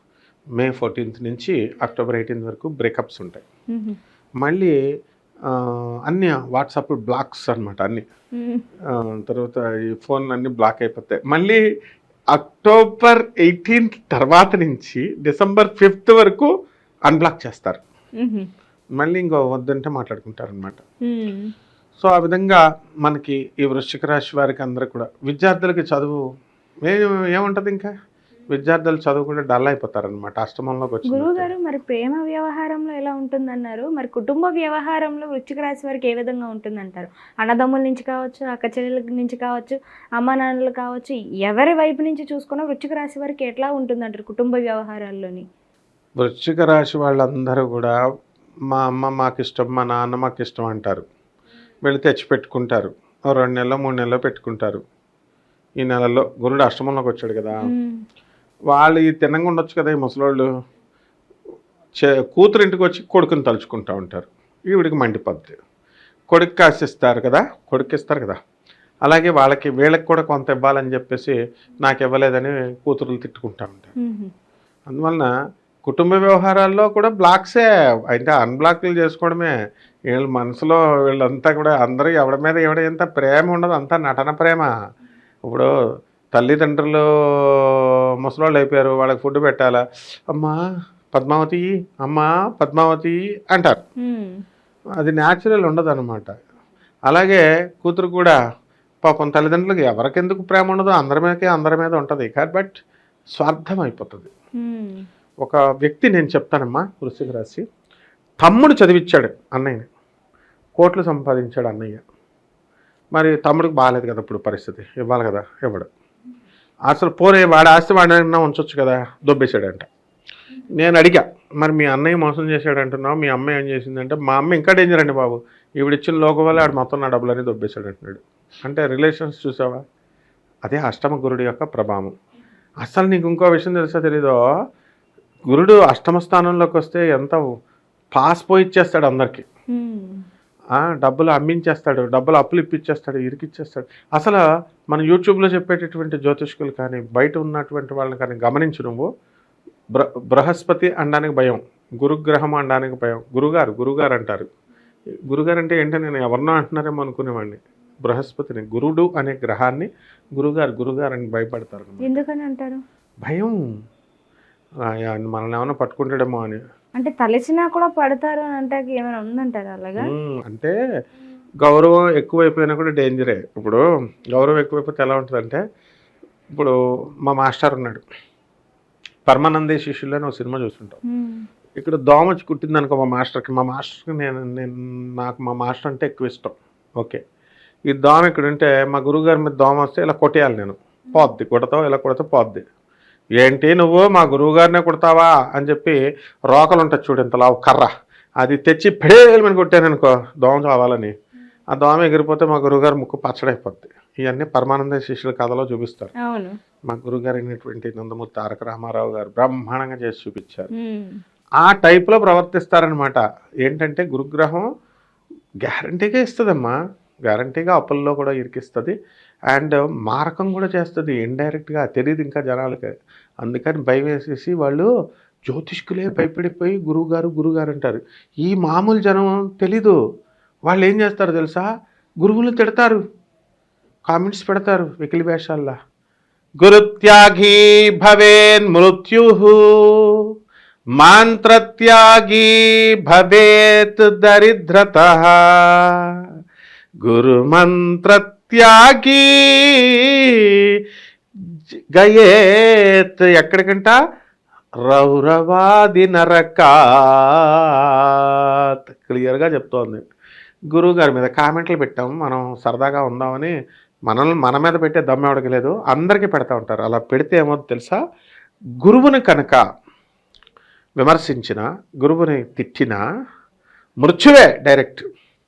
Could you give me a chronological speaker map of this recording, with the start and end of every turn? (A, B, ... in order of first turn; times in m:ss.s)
0:00.6-0:03.4 A
0:03.7-0:04.0 B
0:04.4-0:04.7 A
0:05.5-0:08.0 A
0:08.4-0:08.6 B
0:08.9-0:11.6 A
0:12.3-0:16.5 A
0:17.1-0:17.8 A
0:18.2-0:18.5 B
0:19.0-0:20.8 A
0:21.0-0:21.5 B
0:22.0-0:26.2 A
0:26.8-0:27.9 A
0:28.5-0:31.5 A
0:31.1-0:45.4 B
0:46.2-0:47.9 A
0:48.7-0:51.0 A
0:51.8-0:54.8 A
0:55.8-0:57.6 A
0:57.6-0:58.0 B
0:58.7-1:00.5 A
1:02.0-1:05.6 A
1:06.3-1:08.4 A
1:09.0-1:13.9 A
1:14.0-1:14.3 B
1:14.9-1:15.3 A
1:15.8-1:19.5 A
1:20.1-1:24.7 A
1:26.3-1:30.6 A
1:31.1-1:33.8 A
1:34.0-1:34.4 B
1:35.0-1:36.3 A
1:37.1-1:38.4 A
1:39.0-1:42.8 A
1:43.4-1:44.3 A
1:44.6-1:45.0 B
1:45.4-1:47.6 A
1:48.4-1:49.8 A
1:50.8-1:52.0 A
1:53.1-1:55.9 A
1:56.9-1:59.9 A
2:00.8-2:09.8 A
2:10.6-2:12.1 A
2:12.8-2:14.4 A
2:15.5-2:17.4 A
2:18.2-2:19.4 A
2:19.7-2:20.2 B
2:20.8-2:29.1 A
2:29.9-2:34.5 A
2:35.3-2:42.1 A
2:42.0-2:42.8 B
2:43.2-2:43.6 A
2:45.0-2:46.6 A
2:47.0-2:50.1 B
2:50.0-2:50.7 A
2:51.6-2:53.8 A
2:54.3-2:55.6 A
2:57.2-2:58.0 A
2:59.3-3:01.0 A
3:01.0-3:01.4 B
3:01.8-3:07.2 A
3:07.9-3:12.6 A
3:13.4-3:16.0 A
3:16.5-3:17.9 A
3:18.4-3:21.1 A
3:21.7-3:26.1 A
3:26.2-3:26.6 B
3:26.9-3:30.7 A
3:30.7-3:31.2 B
3:31.6-3:34.6 A
3:35.6-3:36.7 A
3:37.3-3:38.9 A
3:39.5-3:42.9 A
3:43.4-3:44.9 A
3:45.5-3:50.0 A
3:50.7-3:51.6 A
3:52.2-3:53.0 A
3:54.1-3:55.7 A
3:56.6-4:00.2 A
4:01.0-4:06.2 A
4:07.0-4:10.8 A
4:11.9-4:13.9 A
4:14.8-4:20.0 A
4:20.7-4:23.5 A
4:24.1-4:28.0 A
4:28.8-4:29.6 A
4:31.0-4:33.0 A
4:34.0-4:35.0 A